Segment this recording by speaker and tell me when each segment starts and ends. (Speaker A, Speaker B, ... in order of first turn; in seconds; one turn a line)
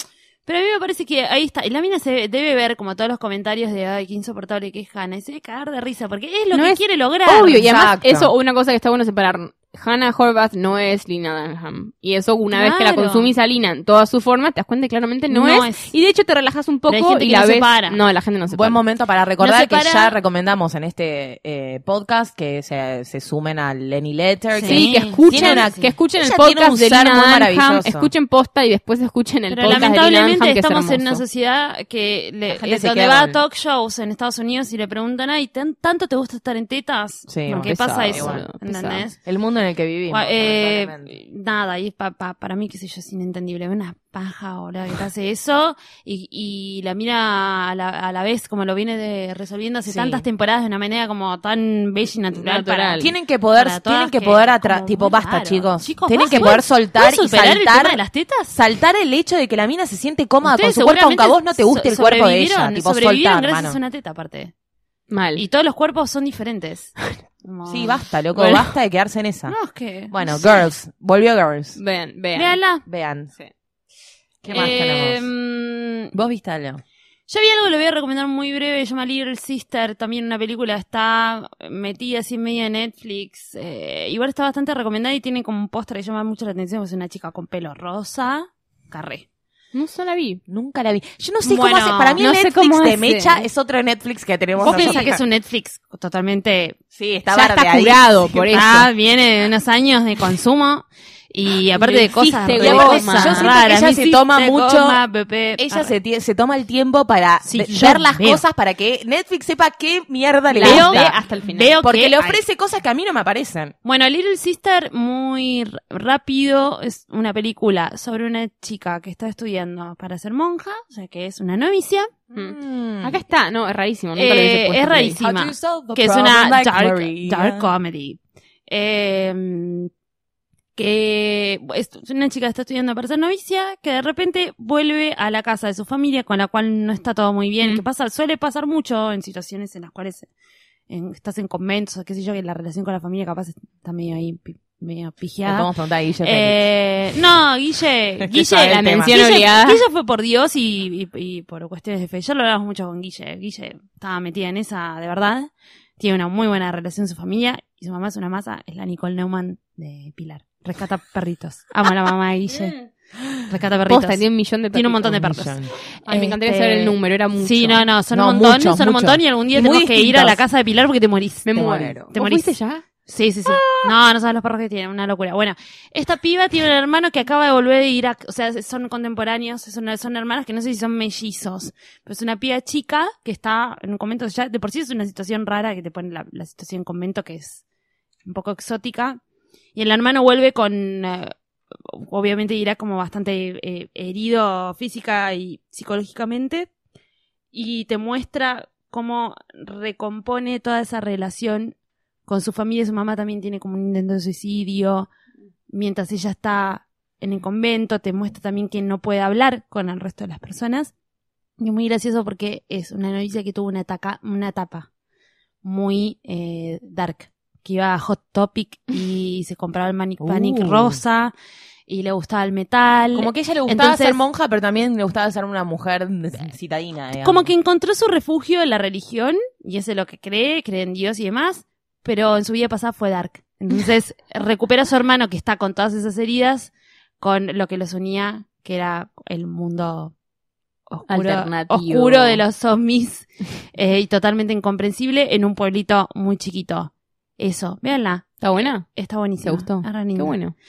Speaker A: 0.4-7.7
Speaker B: 6.5-6.8
Speaker C: 7.3-8.3
Speaker B: 7.3-18.8
Speaker A: 12.5-13.3
Speaker A: 15.3-15.9
Speaker A: 16.9-18.0
Speaker C: 18.5-28.1
Speaker A: 19.4-20.1
Speaker A: 24.5-25.9
Speaker B: 24.6-31.2
Speaker A: 29.5-39.2
Speaker C: 32.5-33.4
Speaker C: 37.3-38.4
Speaker B: 37.6-39.0
Speaker C: 39.2-41.1
Speaker A: 40.1-58.5
Speaker C: 49.9-50.2
Speaker B: 52.3-53.1
Speaker C: 53.0-58.0
Speaker C: 58.5-63.8
Speaker A: 60.4-64.5
Speaker B: 65.1-65.4
Speaker A: 65.4-68.0
Speaker C: 67.7-69.5
Speaker B: 68.3-68.6
Speaker A: 69.5-70.3
Speaker C: 70.1-71.8
Speaker B: 71.8-72.6
Speaker A: 72.3-72.8
Speaker C: 72.8-73.3
Speaker C: 74.4-75.3
Speaker A: 74.5-76.1
Speaker C: 76.1-76.8
Speaker A: 77.3-89.2
Speaker B: 89.7-90.4
Speaker C: 90.5-95.2
Speaker A: 91.4-92.2
Speaker B: 92.2-93.4
Speaker A: 94.6-96.8
Speaker B: 94.6-95.0
Speaker C: 96.9-98.5
Speaker B: 97.3-98.9
Speaker A: 98.5-105.9
Speaker B: 101.8-103.5
Speaker C: 102.5-105.0
Speaker C: 105.6-111.1
Speaker A: 107.5-108.4
Speaker B: 110.5-111.8
Speaker A: 110.6-112.4
Speaker C: 111.8-113.7
Speaker A: 113.8-122.1
Speaker C: 122.3-123.2
Speaker B: 122.3-125.2
Speaker A: 124.2-129.9
Speaker C: 125.2-127.7
Speaker A: 130.8-140.3
Speaker A: 140.9-145.7
Speaker C: 145.4-146.7
Speaker A: 146.2-162.8
Speaker C: 148.2-149.2
Speaker B: 148.7-149.8
Speaker A: 163.5-164.2
Speaker B: 163.9-165.4
Speaker A: 164.7-187.6
Speaker C: 165.1-165.7
Speaker B: 166.0-167.9
Speaker C: 168.1-170.4
Speaker B: 171.4-172.8
Speaker B: 173.5-173.9
Speaker A: 188.2-189.2
Speaker A: 189.7-191.3
Speaker A: 191.8-196.7
Speaker A: 197.5-201.7
Speaker A: 202.3-205.1
Speaker A: 205.7-210.9
Speaker A: 211.6-214.9
Speaker A: 215.6-221.3
Speaker C: 220.2-221.0
Speaker A: 221.9-224.2
Speaker C: 223.1-227.5
Speaker A: 227.2-240.1
Speaker A: 240.9-250.4
Speaker B: 241.1-242.4
Speaker B: 248.4-250.5